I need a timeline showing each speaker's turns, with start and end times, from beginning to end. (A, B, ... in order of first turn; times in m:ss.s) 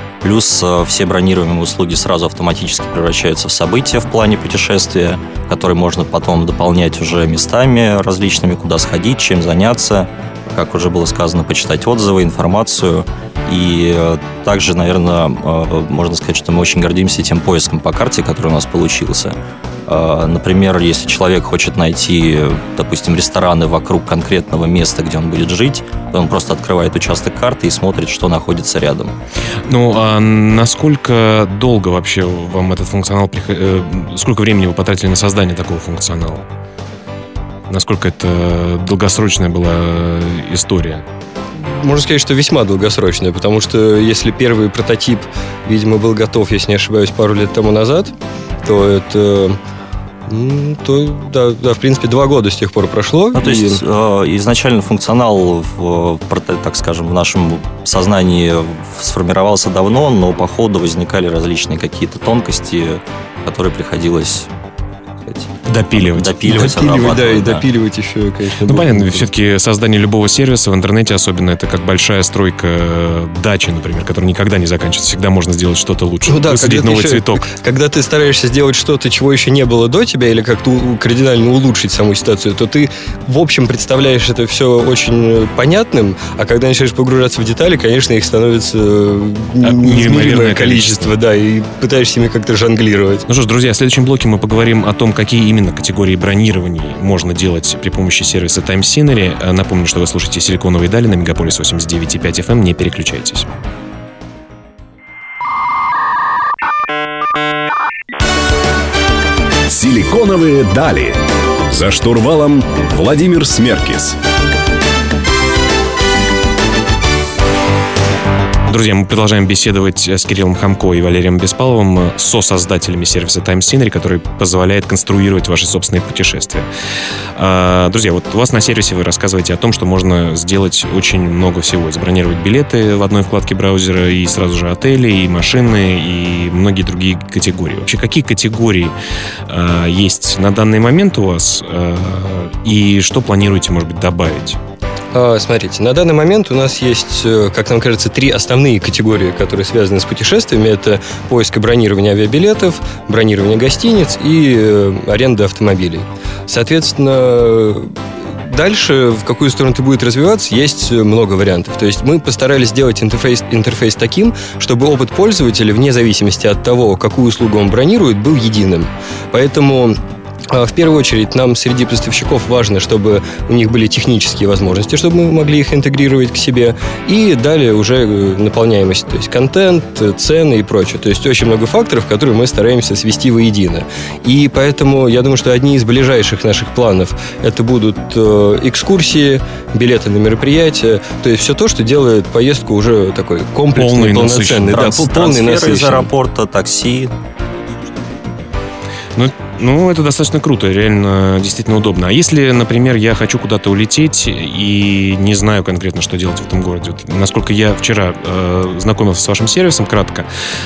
0:00.2-0:19.3 A
0:19.9-0:29.1 A
0:29.7-0:36.4 B
0:37.7-0:41.0 B
0:41.6-0:48.1 C
0:48.6-0:49.6 C
0:50.3-0:53.8 C
0:53.3-1:04.5 A
1:05.2-1:07.6 A
1:05.6-1:06.6 B
1:06.4-1:09.2 C
1:08.6-1:17.5 B
1:16.3-1:33.2 C
1:29.6-1:31.1 B
1:33.3-1:43.5 B
1:49.7-1:54.2 D
1:58.7-2:06.6 B
2:07.4-2:18.9 B
2:19.5-2:24.6 B
2:25.1-2:50.0 C
2:50.5-3:16.1 C
3:13.8-3:14.7 B
3:14.7-3:17.1 A
3:19.2-3:30.2 B